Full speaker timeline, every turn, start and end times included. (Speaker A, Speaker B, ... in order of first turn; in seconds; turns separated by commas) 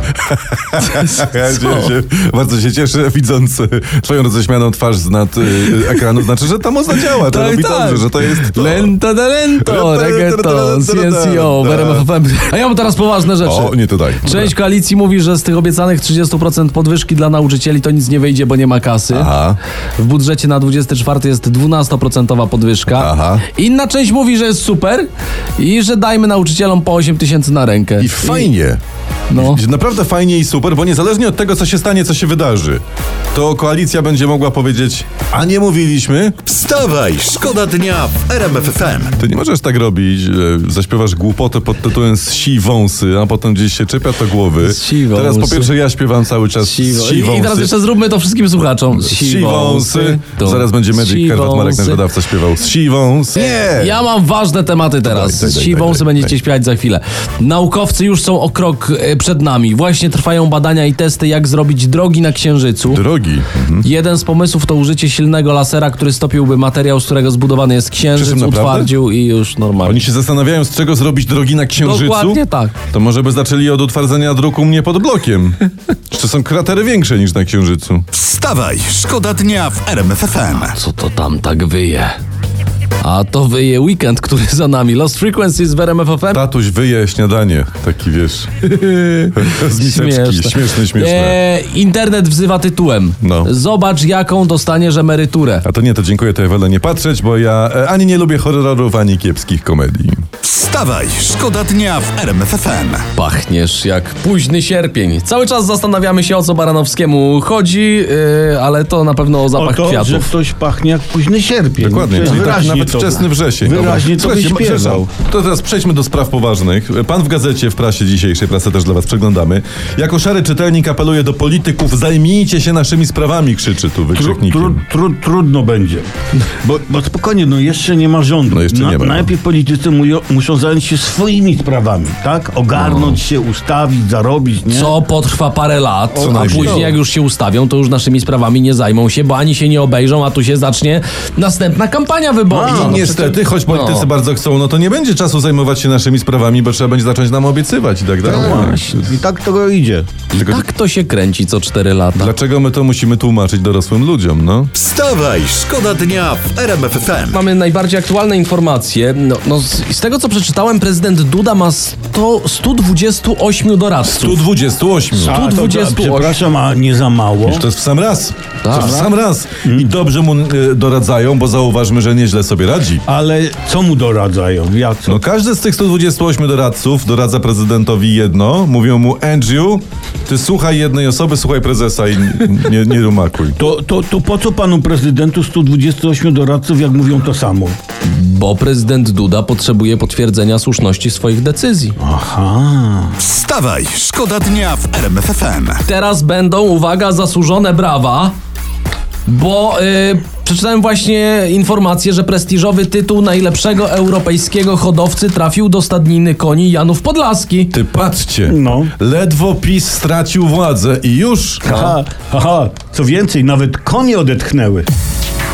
Speaker A: 0.2-8.9, Speaker B: 1.0-1.9, Speaker B: 7.0-19.3, Speaker A: 9.6-12.1, Speaker A: 13.4-14.5, Speaker A: 19.1-19.6, Speaker B: 20.0-28.5, Speaker A: 22.9-23.4, Speaker A: 28.0-28.8, Speaker B: 29.3-29.6, Speaker A: 29.4-32.8, Speaker A: 33.3-36.5, Speaker C: 36.5-39.2, Speaker A: 39.2-47.7, Speaker B: 44.6-45.7, Speaker B: 46.6-52.0, Speaker A: 48.9-54.0, Speaker B: 53.5-63.0, Speaker A: 55.0-56.4, Speaker A: 62.9-63.9, Speaker B: 63.8-70.0, Speaker A: 68.1-68.9, Speaker A: 69.8-78.1, Speaker B: 71.8-72.7, Speaker C: 78.1-80.8, Speaker B: 80.6-82.2, Speaker B: 83.0-86.4, Speaker A: 86.3-91.4, Speaker B: 88.9-95.7, Speaker A: 93.2-93.5, Speaker A: 95.6-100.3, Speaker C: 100.4-103.1, Speaker B: 103.2-110.3, Speaker D: 109.5-115.1, Speaker A: 111.8-124.8, Speaker D: 124.1-126.1, Speaker D: 126.6-135.0, Speaker A: 128.5-129.3, Speaker A: 132.8-133.2, Speaker B: 134.7-144.1, Speaker A: 136.1-137.0, Speaker D: 136.2-136.9, Speaker D: 142.5-143.1, Speaker A: 142.7-149.0, Speaker D: 148.2-150.1, Speaker B: 148.2-149.1, Speaker B: 150.3-152.3, Speaker A: 150.4-150.7, Speaker A: 152.2-154.7, Speaker C: 154.7-157.4, Speaker B: 157.3-164.4, Speaker A: 164.0-165.4, Speaker B: 165.2-166.4, Speaker D: 165.2-167.7, Speaker A: 167.4-173.1, Speaker B: 168.6-169.0, Speaker D: 168.7-169.1, Speaker D: 173.1-175.2, Speaker A: 175.1-183.6, Speaker D: 183.6-187.8, Speaker B: 188.0-192.0, Speaker D: 192.0-193.2, Speaker C: 193.2-195.8, Speaker B: 195.8-198.3, Speaker B: 199.3-207.7, Speaker A: 207.7-211.7, Speaker D: 208.5-208.9, Speaker D: 211.7-214.9, Speaker B: 211.7-212.0